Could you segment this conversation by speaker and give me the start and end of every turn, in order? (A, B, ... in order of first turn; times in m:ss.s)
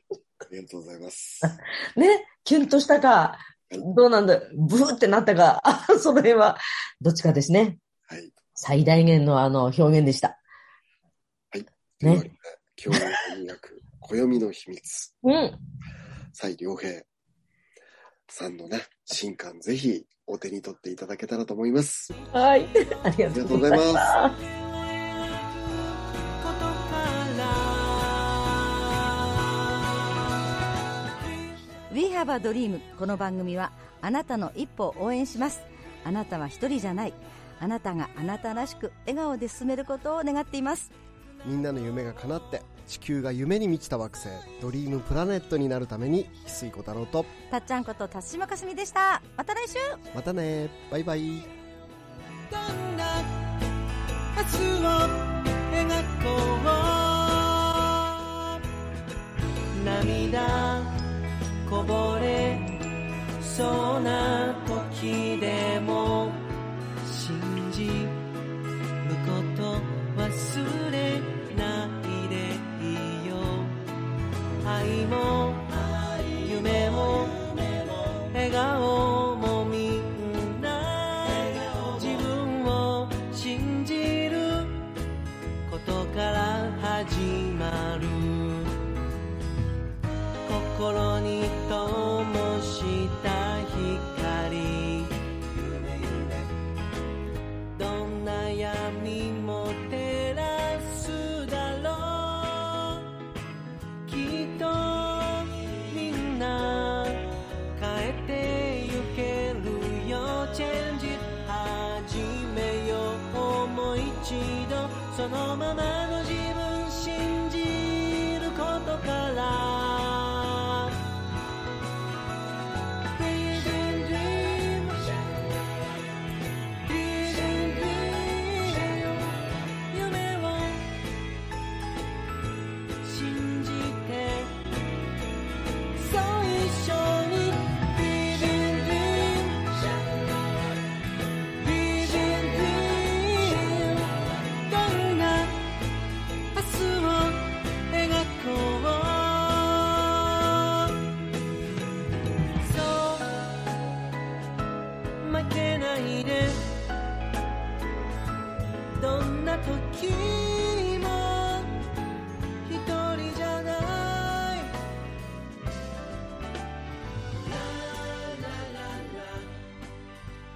0:00.5-0:01.6 A
0:01.4-0:07.8 B
0:08.1-0:08.3 A
0:08.6-0:10.4 B
0:11.5-0:15.1 A
0:12.9-0:13.2 B
0:15.2-0:15.6 B
0:16.3-0:17.1 A
0:18.3-0:22.1 A
0:22.3-0:24.3 B
0:23.3-0:24.2 A
0:24.4-0:29.8 C
0:31.9-0:40.9 D
0:41.4-0:47.3 E
0:47.5-0:50.0 D
0:50.1-0:51.5 E
0:52.4-0:53.7 C
0:54.3-0:58.6 C
0:59.7-1:01.0 C
1:01.6-1:02.8 C
1:03.4-1:06.5 C
1:07.0-1:08.2 C
1:09.0-1:13.8 C
1:14.6-1:24.9 C
1:25.6-1:28.8 C
1:30.4-1:36.5 C
1:37.7-1:43.1 C
1:44.0-2:00.9 C
2:03.1-2:05.7 C
2:06.8-2:11.0 C
2:13.0-2:14.6 C
2:15.9-2:20.2 C
2:21.5-2:25.7 C
2:26.5-2:30.9 C
2:32.6-2:33.4 C
2:35.2-2:36.8 C
2:38.9-2:41.7 C
2:42.6-2:44.8 C
2:47.4-2:49.6 C